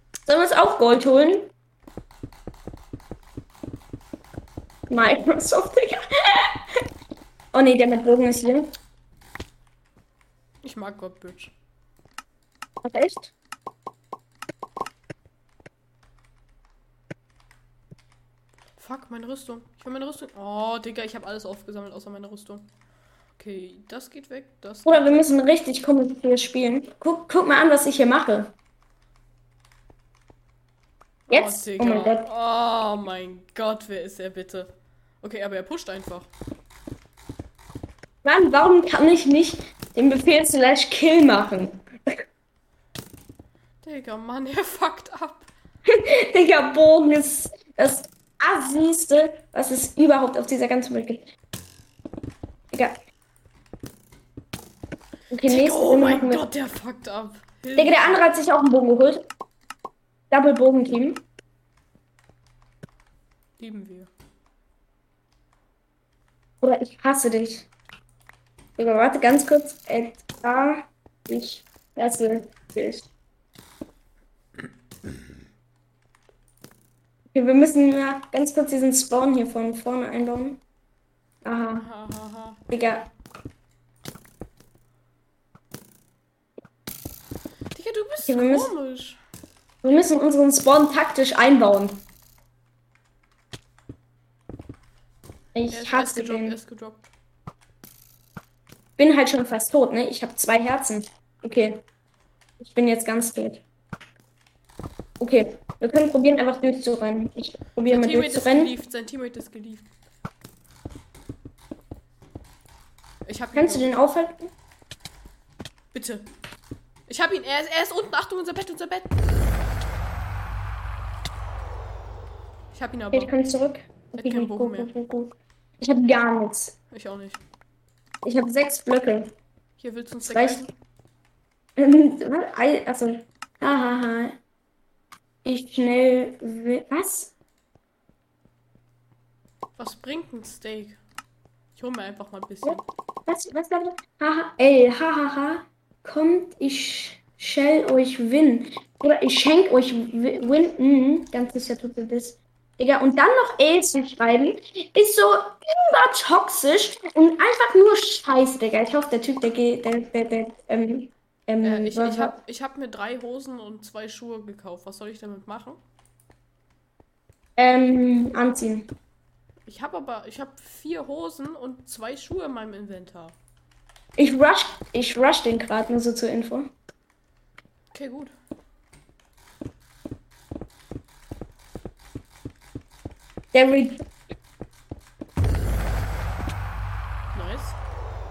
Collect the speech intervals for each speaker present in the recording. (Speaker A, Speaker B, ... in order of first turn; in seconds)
Speaker A: 0.2-1.5, 4.9-6.8, 7.5-8.7, 12.8-13.3, 24.9-28.5, 31.3-32.2, 38.2-42.2, 45.9-51.3, 52.7-53.0, 55.3-56.4, 57.8-59.3, 60.3-61.2, 66.6-67.7, 68.8-73.1, 77.3-80.6, 81.4-81.8, 82.7-83.1, 88.2-88.7, 89.8-92.0, 95.5-96.6, 99.0-101.8, 102.6-103.6, 105.2-108.7, 113.5-114.5, 123.1-126.7, 128.2-129.3, 130.2-130.7, 131.8-134.4, 135.4-137.3, 142.6-162.4, 167.6-168.9, 174.2-176.7, 183.5-184.1
Speaker B: 10.6-11.5, 18.8-22.7, 23.4-25.4, 31.3-36.3, 43.8-45.5, 55.5-58.3, 63.6-64.1, 81.6-82.6, 87.7-89.2, 95.7-97.1, 107.9-109.9, 113.2-114.2, 115.9-116.3, 117.1-119.2, 122.7-123.3, 124.2-124.9, 126.9-127.4, 129.8-130.7, 139.8-141.0, 141.7-142.9, 161.6-165.8, 169.7-173.4, 177.9-178.3, 187.3-187.8